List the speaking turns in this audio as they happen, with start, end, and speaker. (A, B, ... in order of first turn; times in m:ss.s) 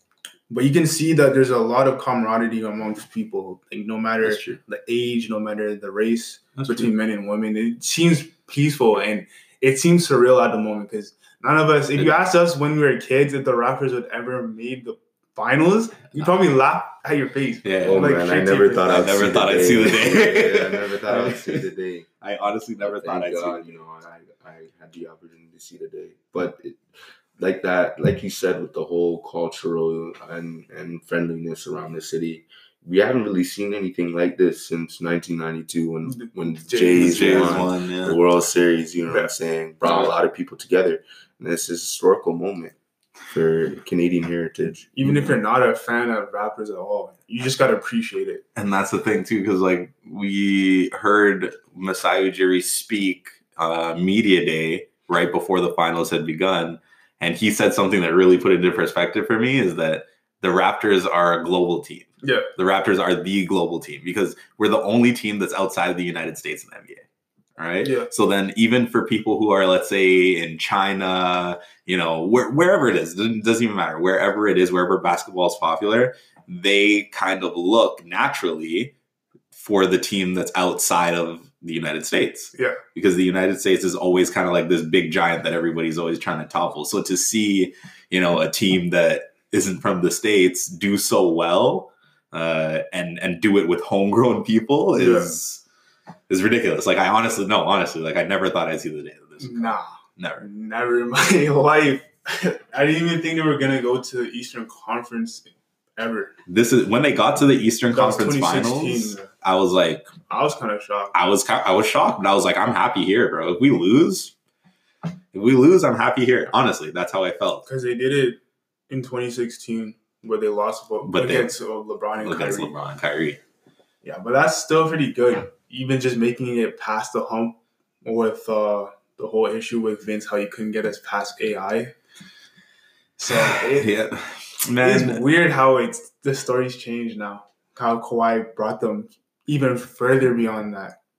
0:00.5-0:19.1 A
0:04.2-0:04.6 B
0:06.6-0:06.9 B
0:17.6-0:18.0 B
0:17.8-0:22.1 C
0:18.9-0:21.6 B
0:22.2-0:23.7 B
0:22.8-0:26.8 C
0:27.4-0:42.7 C
0:36.0-0:37.6 A
0:36.9-0:38.2 B
0:39.1-0:39.3 A
0:43.2-0:45.1 C
0:44.9-0:48.4 A
0:48.5-1:07.0 B
1:02.2-1:02.5 A
1:07.6-1:18.9 B
1:07.8-1:08.1 A
1:19.5-1:35.6 B
1:34.9-1:35.3 A
1:36.3-1:40.4 B
1:39.4-1:46.3 A
1:46.5-1:50.1 B
1:47.9-1:49.3 A
1:50.3-1:51.2 A
1:51.1-1:54.3 B
1:55.3-1:57.6 B
1:57.6-2:02.7 A
2:01.0-2:01.6 B
2:02.2-2:03.4 B
2:04.0-2:11.9 A
2:13.2-2:13.9 A
2:13.3-2:15.2 B
2:14.8-2:21.0 A